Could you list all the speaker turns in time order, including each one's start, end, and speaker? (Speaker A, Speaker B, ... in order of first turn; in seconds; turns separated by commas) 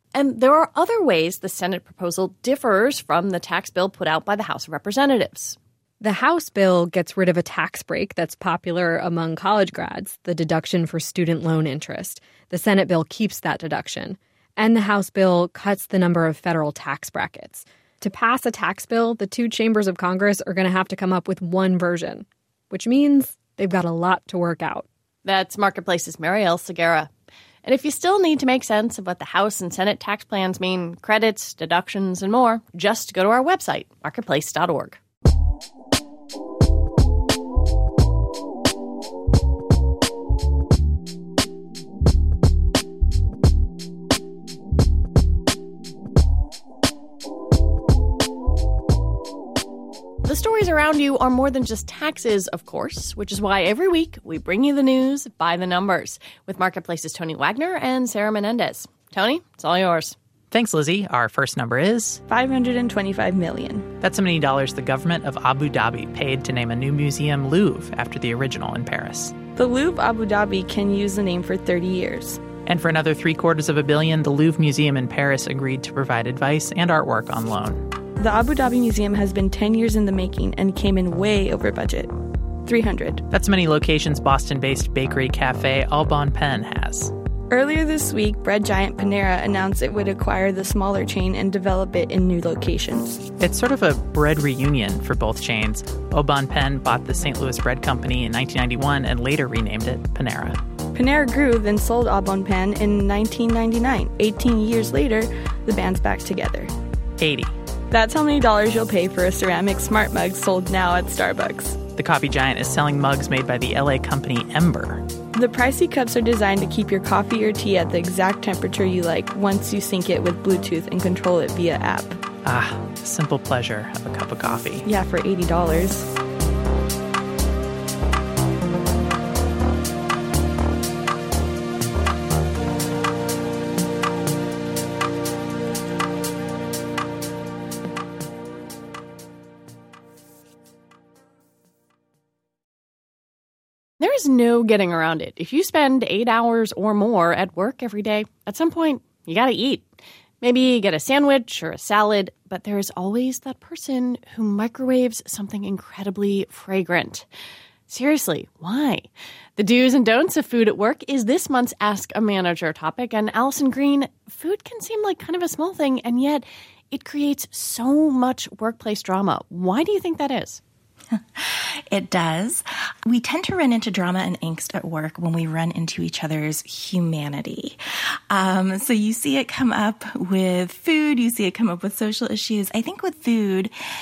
Speaker A: 0.1-5.6, Speaker B: 6.0-24.9, Speaker A: 25.2-27.1, Speaker A: 27.6-35.0, Speaker A: 50.2-60.2, Speaker C: 60.5-62.2, Speaker D: 62.3-63.9, Speaker C: 64.0-69.4, Speaker D: 69.5-72.4, Speaker C: 72.7-77.9, Speaker D: 78.2-82.1, Speaker D: 82.7-83.2, Speaker C: 83.3-87.2, Speaker D: 87.5-93.2, Speaker C: 93.4-100.6, Speaker D: 100.9-106.7, Speaker C: 107.2-107.5, Speaker D: 107.9-111.9, Speaker C: 111.9-115.1, Speaker D: 115.3-122.2, Speaker C: 122.4-124.9, Speaker D: 124.8-126.1, Speaker A: 144.0-149.9, Speaker A: 150.4-157.3, Speaker A: 157.9-170.6, Speaker E: 171.1-177.8, Speaker E: 178.3-183.7